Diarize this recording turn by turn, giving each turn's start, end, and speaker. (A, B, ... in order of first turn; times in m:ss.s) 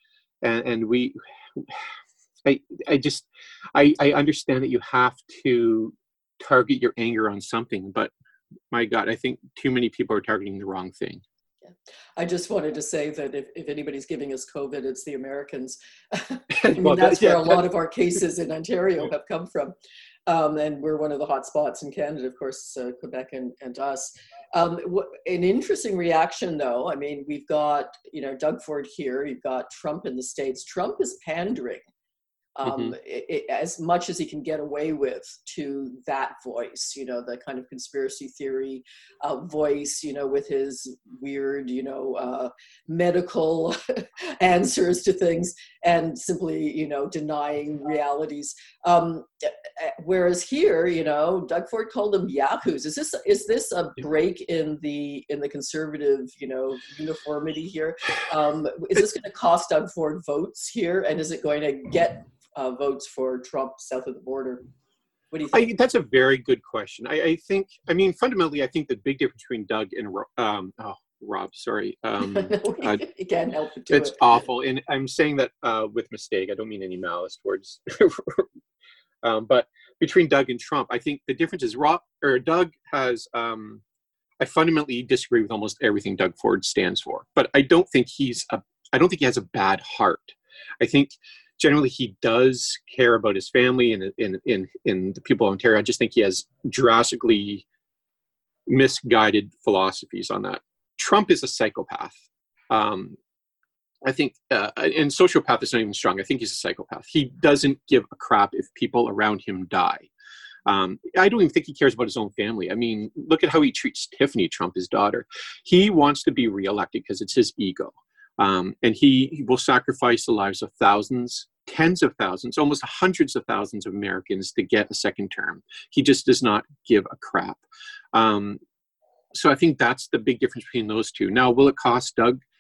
0:00.4-0:08.1 A
0:08.7-0:11.2 A
0:11.6-0:19.8 B
0:16.5-0:17.6 A
0:20.3-0:31.8 B
0:32.6-1:04.6 B
0:32.7-0:32.9 A
1:05.3-1:05.7 B
1:05.5-1:13.0 A
1:12.2-1:14.2 B
1:13.9-1:18.5 A
1:19.2-1:23.8 A
1:24.4-1:37.6 A
1:38.7-1:42.2 A
1:42.7-1:43.2 A
1:44.0-1:50.1 A
1:50.7-2:08.6 A
2:09.3-2:12.4 A